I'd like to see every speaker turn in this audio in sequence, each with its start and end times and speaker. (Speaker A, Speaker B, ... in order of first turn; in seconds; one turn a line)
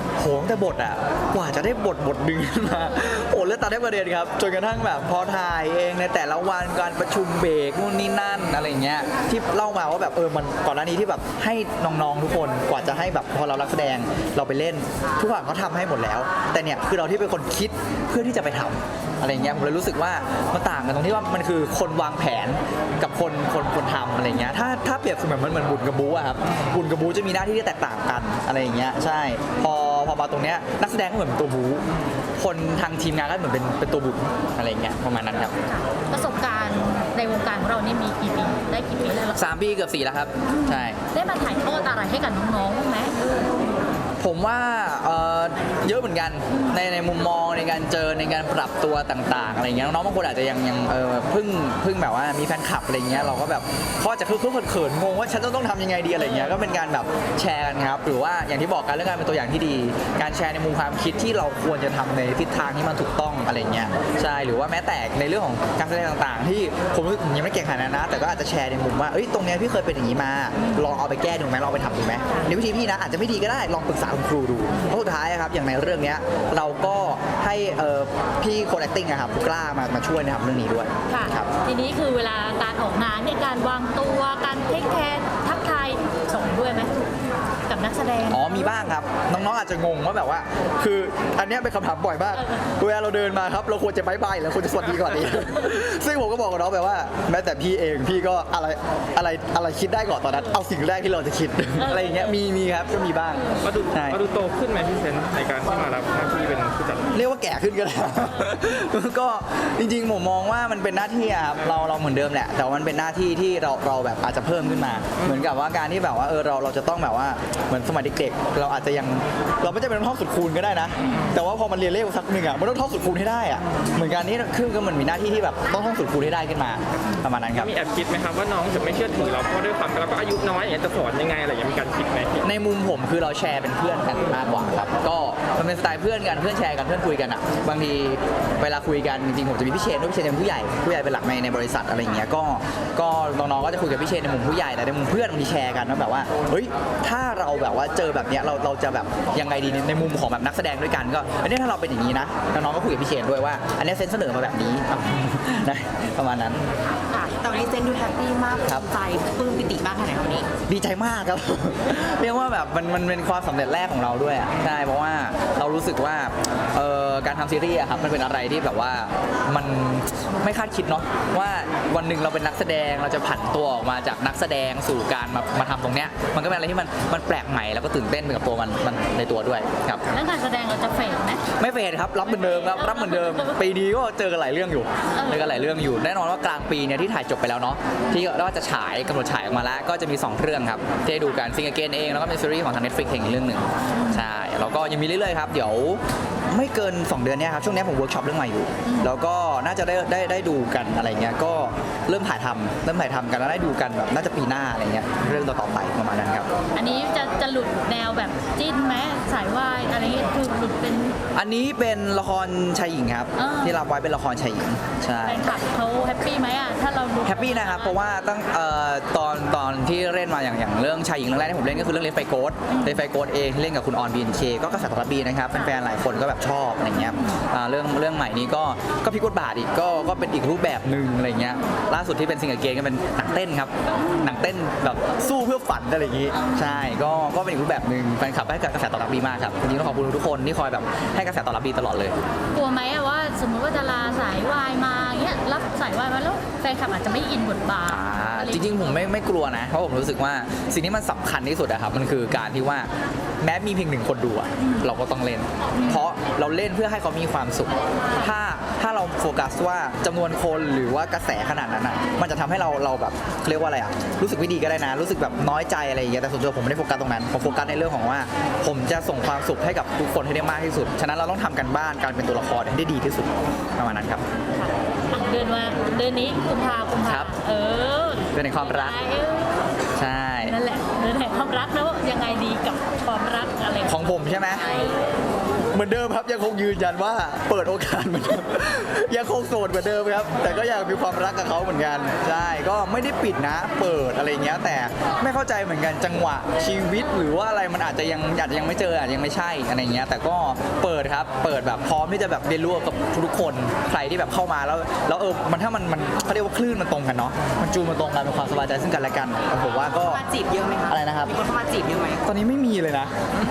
Speaker A: 0.2-31.9
Speaker A: 32.4-35.5
Speaker B: 35.6-39.5
Speaker A: 39.3-41.0
Speaker B: 40.5-43.4
Speaker A: 44.2-81.5
Speaker B: 46.5-46.8
Speaker B: 56.2-56.5
Speaker B: 70.6-70.9
Speaker B: 72.2-72.5
Speaker B: 81.1-88.7
Speaker A: 88.3-104.2
Speaker B: 92.3-92.6
Speaker B: 100.3-100.6
Speaker B: 101.8-102.4
Speaker B: 103.3-103.6
Speaker C: 103.6-107.3
Speaker A: 107.1-127.7
Speaker B: 114.7-115.0
Speaker C: 115.2-115.5
Speaker B: 121.0-121.3
Speaker C: 121.1-121.4
Speaker C: 127.5-132.5
Speaker A: 132.4-156.6
Speaker D: 157.1-160.5
Speaker A: 160.7-180.1
Speaker B: 180.1-181.4
Speaker A: 181.6-206.5
Speaker B: 182.3-183.6
Speaker B: 185.1-185.7
Speaker B: 193.9-194.3
Speaker B: 198.8-199.1
Speaker B: 205.2-205.5
Speaker B: 206.7-211.2
Speaker A: 211.3-215.5
Speaker B: 213.4-213.8
Speaker B: 215.2-218.0
Speaker A: 217.2-242.2
Speaker B: 222.7-223.0
Speaker B: 226.9-227.4
Speaker B: 233.9-234.3
Speaker B: 236.3-236.8
Speaker B: 242.5-248.9
Speaker A: 247.9-252.9
Speaker A: 253.4-274.2
Speaker B: 254.6-254.9
Speaker B: 255.7-256.1
Speaker B: 274.5-279.7
Speaker A: 277.0-277.3
Speaker A: 278.3-279.0
Speaker A: 280.0-280.6
Speaker B: 280.4-285.0
Speaker A: 283.9-284.9
Speaker D: 284.6-284.9
Speaker A: 285.7-310.2
Speaker D: 309.7-312.2
Speaker A: 310.9-311.4
Speaker A: 312.2-313.1